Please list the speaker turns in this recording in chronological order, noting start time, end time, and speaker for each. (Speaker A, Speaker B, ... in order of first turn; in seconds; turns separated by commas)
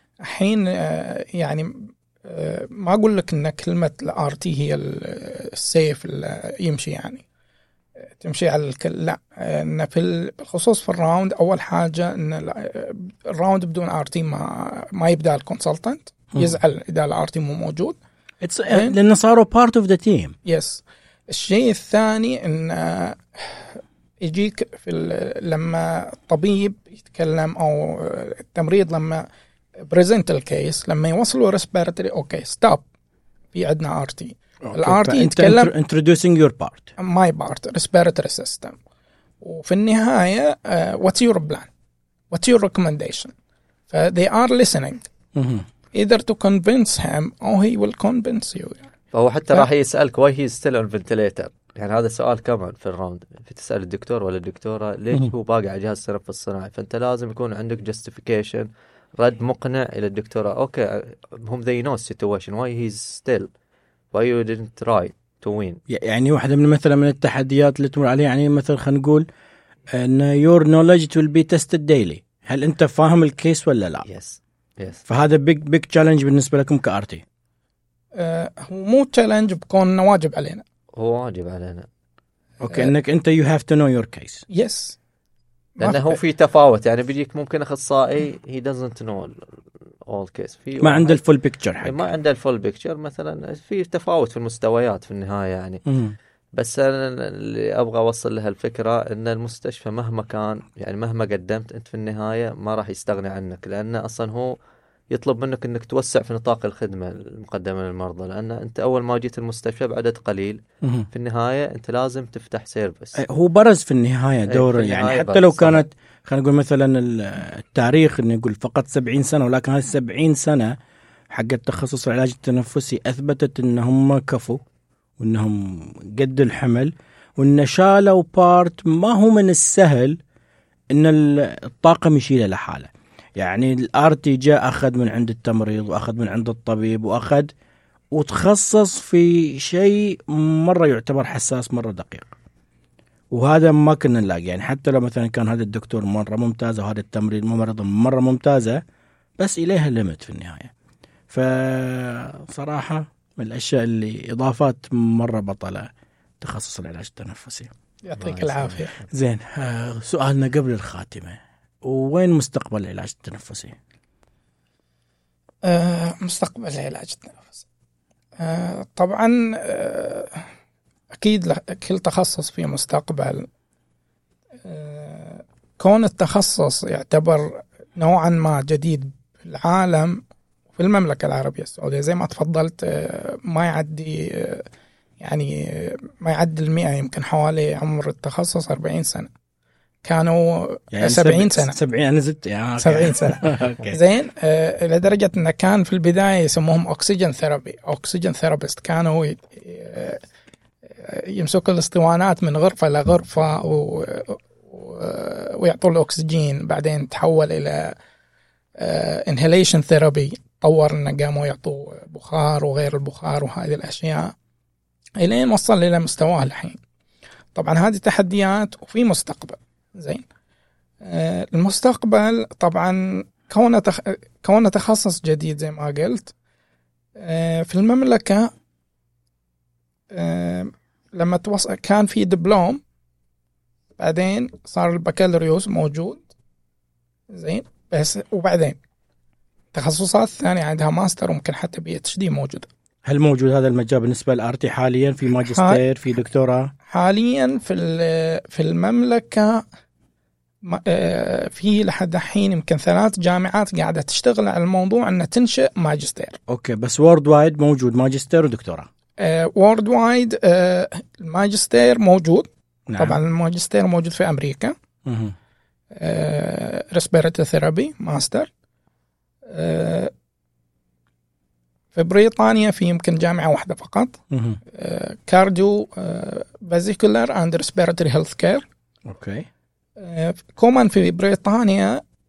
Speaker A: 0.2-7.2, Speaker A: 8.2-18.0, Speaker B: 18.4-20.3, Speaker A: 18.7-18.9, Speaker A: 20.4-29.2, Speaker A: 29.8-32.8, Speaker A: 33.5-35.7, Speaker B: 34.6-36.9, Speaker A: 37.0-38.8, Speaker A: 39.4-41.7, Speaker A: 42.3-43.3, Speaker A: 43.9-45.1, Speaker B: 45.3-45.6, Speaker A: 45.9-48.9, Speaker C: 49.1-63.5, Speaker C: 64.1-65.8, Speaker B: 65.9-69.3, Speaker B: 69.9-74.0, Speaker C: 74.0-75.0, Speaker B: 75.1-77.2, Speaker A: 78.1-80.6, Speaker C: 80.9-81.9, Speaker B: 82.6-84.4, Speaker A: 84.5-85.0, Speaker A: 85.8-86.1, Speaker C: 85.8-89.5, Speaker C: 90.0-91.2, Speaker B: 90.8-92.1, Speaker C: 91.8-95.8, Speaker B: 95.8-96.2, Speaker C: 96.5-104.5, Speaker C: 105.1-113.2, Speaker B: 110.8-111.1, Speaker B: 113.2-120.8, Speaker C: 114.5-115.8, Speaker B: 121.3-124.6, Speaker B: 125.2-130.2, Speaker B: 130.9-137.5, Speaker B: 138.1-142.3, Speaker B: 143.3-148.8, Speaker B: 149.4-150.7, Speaker B: 151.3-155.9, Speaker B: 156.4-157.7, Speaker A: 158.0-158.9, Speaker C: 158.2-159.1, Speaker B: 159.1-163.8, Speaker A: 165.6-167.6, Speaker A: 168.4-170.5, Speaker A: 171.1-173.5, Speaker A: 174.6-180.2, Speaker A: 180.7-184.7, Speaker A: 185.2-189.3, Speaker A: 190.0-191.8, Speaker B: 190.9-194.0, Speaker A: 192.8-200.2, Speaker A: 201.0-207.9, Speaker A: 208.8-214.3, Speaker A: 215.2-216.8, Speaker A: 217.5-220.2, Speaker A: 221.0-226.3, Speaker A: 227.2-228.5, Speaker A: 230.1-232.8, Speaker A: 234.0-236.2, Speaker A: 237.3-238.8, Speaker A: 239.7-242.7, Speaker B: 243.0-246.7, Speaker A: 245.4-245.8, Speaker A: 246.9-249.6, Speaker A: 250.6-256.4, Speaker B: 256.5-258.9, Speaker A: 259.2-264.8, Speaker B: 262.9-263.2, Speaker B: 265.0-265.3, Speaker A: 265.9-268.5, Speaker A: 269.5-270.1, Speaker A: 271.9-274.2, Speaker B: 274.3-274.6, Speaker A: 274.7-278.6, Speaker B: 279.1-279.5, Speaker A: 280.0-282.0